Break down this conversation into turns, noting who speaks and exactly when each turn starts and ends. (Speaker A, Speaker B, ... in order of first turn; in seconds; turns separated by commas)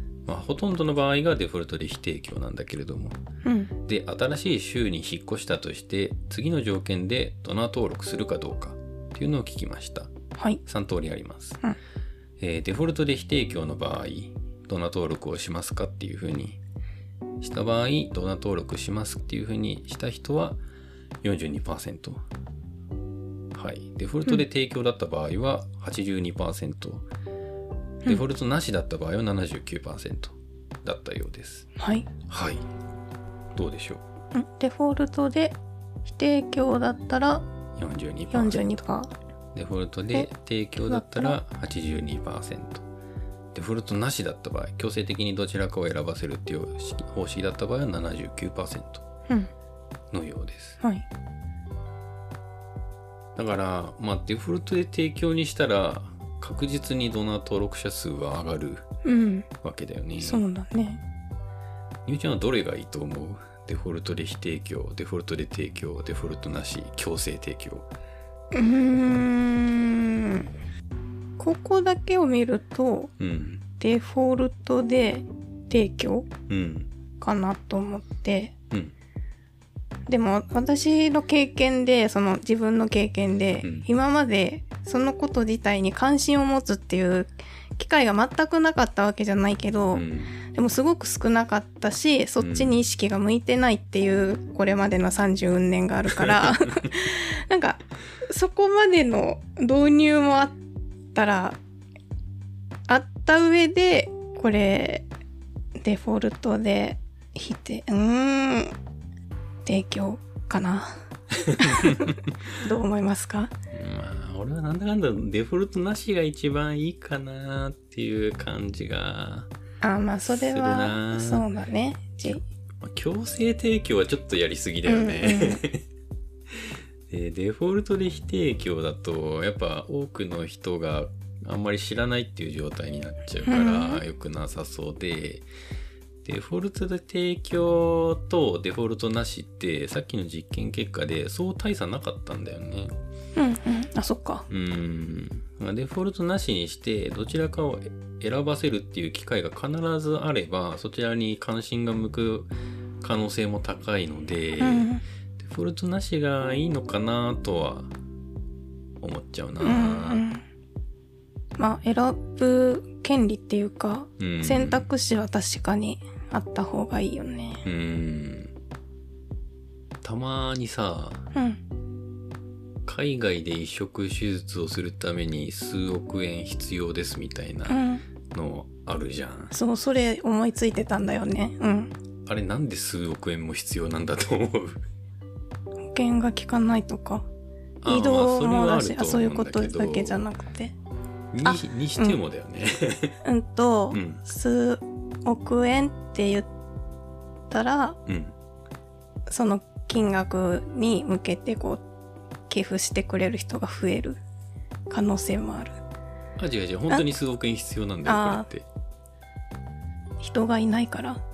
Speaker A: 0.2-3.2, Speaker B: 3.4-3.7, Speaker A: 3.9-10.1, Speaker A: 10.7-11.6, Speaker A: 12.4-16.6, Speaker A: 17.4-20.6, Speaker A: 21.2-22.2, Speaker A: 23.5-27.1, Speaker A: 28.0-31.7, Speaker B: 31.8-32.1, Speaker A: 32.3-32.6, Speaker A: 33.5-34.0, Speaker B: 34.3-37.4, Speaker A: 37.8-38.7, Speaker B: 38.3-39.1, Speaker A: 39.5-42.8, Speaker B: 40.9-41.4, Speaker A: 43.5-49.0, Speaker A: 50.1-50.8, Speaker B: 50.8-51.0, Speaker A: 53.4-58.8, Speaker B: 59.0-59.5, Speaker A: 59.6-60.4, Speaker B: 60.2-61.0, Speaker A: 62.0-67.8, Speaker B: 68.5-70.5, Speaker B: 71.4-73.1, Speaker A: 73.2-73.6, Speaker B: 73.8-76.3, Speaker A: 76.5-76.9, Speaker B: 77.2-78.5, Speaker B: 80.1-100.6, Speaker A: 83.6-83.9, Speaker A: 89.9-90.4, Speaker A: 92.4-92.8, Speaker A: 96.2-96.5, Speaker B: 101.1-101.6, Speaker B: 102.9-105.1, Speaker B: 105.8-108.7, Speaker B: 109.6-110.9, Speaker A: 111.5-112.2, Speaker B: 111.6-113.5, Speaker A: 113.7-119.5, Speaker B: 119.8-122.4, Speaker A: 120.3-121.5, Speaker A: 122.2-125.8, Speaker B: 124.8-125.6, Speaker A: 127.1-135.4, Speaker B: 133.4-134.0, Speaker A: 136.2-142.9, Speaker B: 143.3-144.4, Speaker A: 144.5-152.5, Speaker A: 153.0-157.9, Speaker B: 154.6-155.0, Speaker A: 159.0-160.2, Speaker B: 159.6-160.4, Speaker B: 161.6-167.6, Speaker A: 164.2-164.8, Speaker A: 167.6-168.5, Speaker A: 170.0-171.3, Speaker B: 171.3-171.6, Speaker A: 172.8-177.8, Speaker B: 177.7-178.0, Speaker A: 178.3-179.5, Speaker B: 179.5-181.9, Speaker A: 182.2-184.8, Speaker B: 185.9-187.2, Speaker A: 187.8-190.3, Speaker B: 187.8-190.7, Speaker A: 191.3-193.2, Speaker B: 191.4-192.2, Speaker B: 193.2-196.5, Speaker A: 193.9-194.2, Speaker B: 197.5-198.0, Speaker A: 198.1-198.3, Speaker B: 199.3-201.8, Speaker B: 202.5-204.2, Speaker B: 204.9-205.8, Speaker A: 206.4-208.7, Speaker B: 208.1-208.5, Speaker B: 210.2-211.2